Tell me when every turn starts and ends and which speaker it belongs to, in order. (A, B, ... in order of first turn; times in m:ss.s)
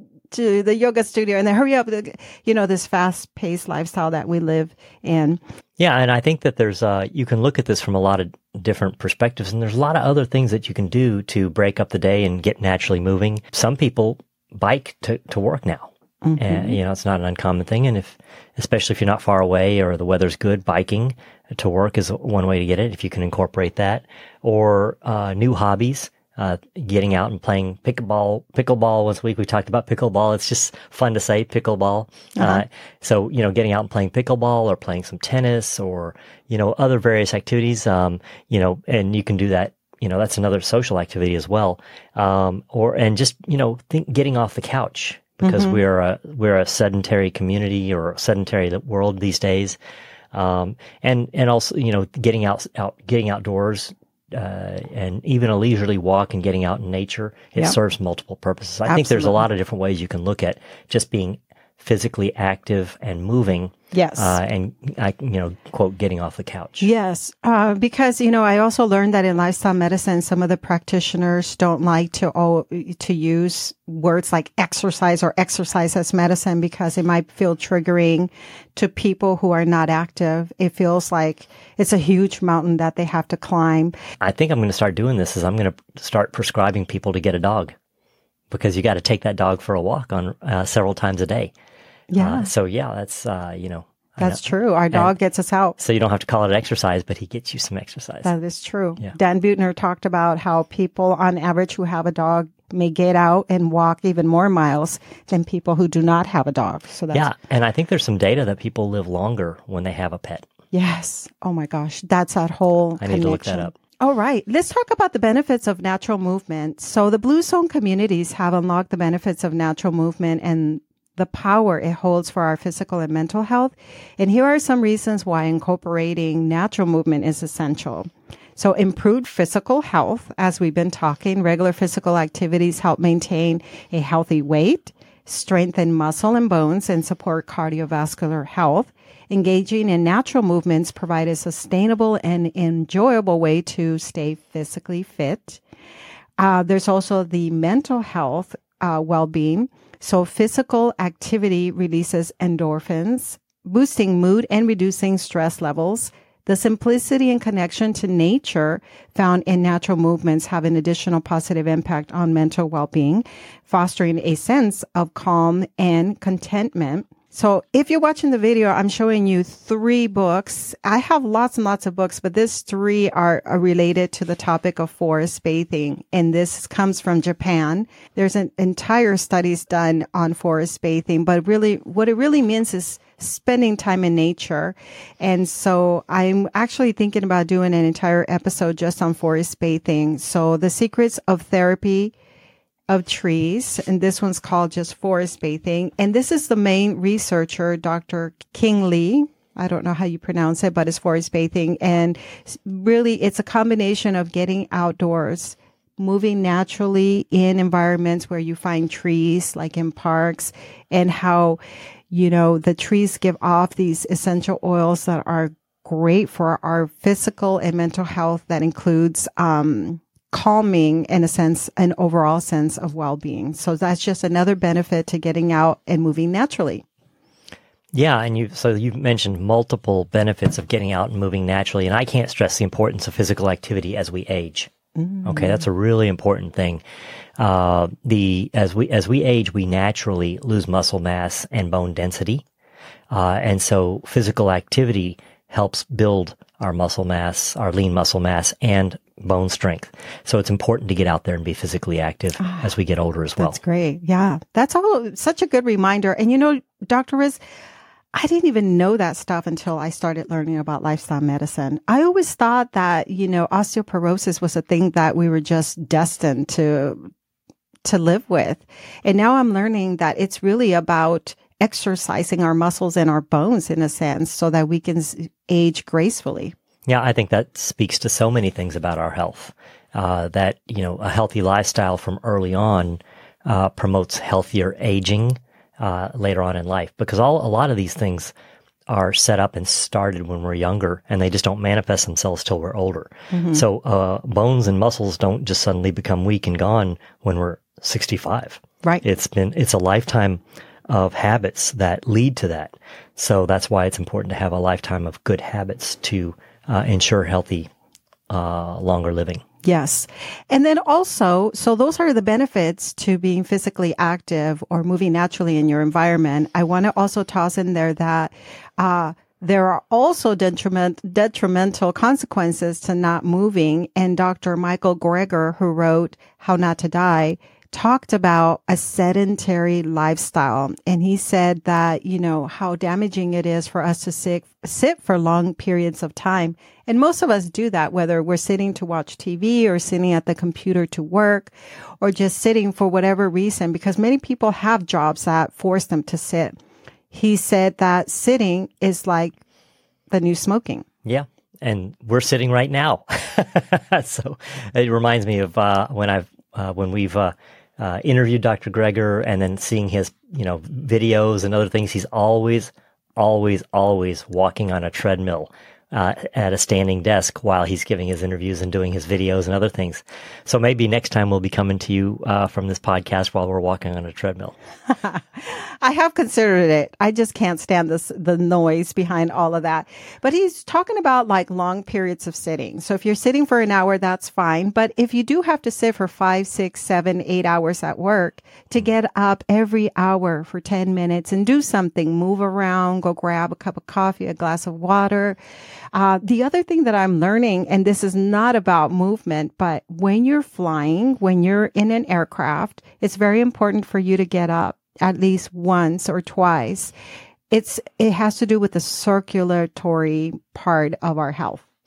0:00.3-0:05.4 A
0:05.8-0:49.8 B
0:16.2-0:16.8 A
0:32.4-0:32.6 A
0:45.4-0:45.8 A
0:50.3-1:06.9 B
0:58.8-0:59.4 A
1:03.9-1:04.4 A
1:06.8-1:23.9 A
1:24.2-1:27.7 B
1:28.5-1:31.5 B
1:32.1-1:32.5 A
1:32.2-1:35.1 B
1:34.2-1:35.8 A
1:35.8-1:38.3 B
1:38.2-1:47.3 A
1:47.1-1:50.5 B
1:50.7-2:25.6 A
1:53.0-1:53.7 B
2:26.4-3:12.1 A
3:12.9-3:31.6 A
3:32.1-3:46.8 A
3:47.9-3:54.7 B
3:55.0-3:55.6 A
3:55.2-3:56.8 B
3:57.4-4:02.4 B
4:03.1-4:13.6 B
4:12.4-4:12.7 A
4:13.4-4:17.4 A
4:18.1-4:27.1 A
4:27.8-4:36.5 A
4:36.9-4:48.3 B
4:48.9-5:07.7 B
4:53.3-4:53.6 A
5:08.3-5:09.4 B
5:09.6-5:46.6 A
5:47.1-5:49.4 A
5:50.1-5:50.8 A
5:51.0-6:14.6 B
6:14.9-6:35.4 A
6:35.9-6:46.9 A
6:47.5-6:51.6 A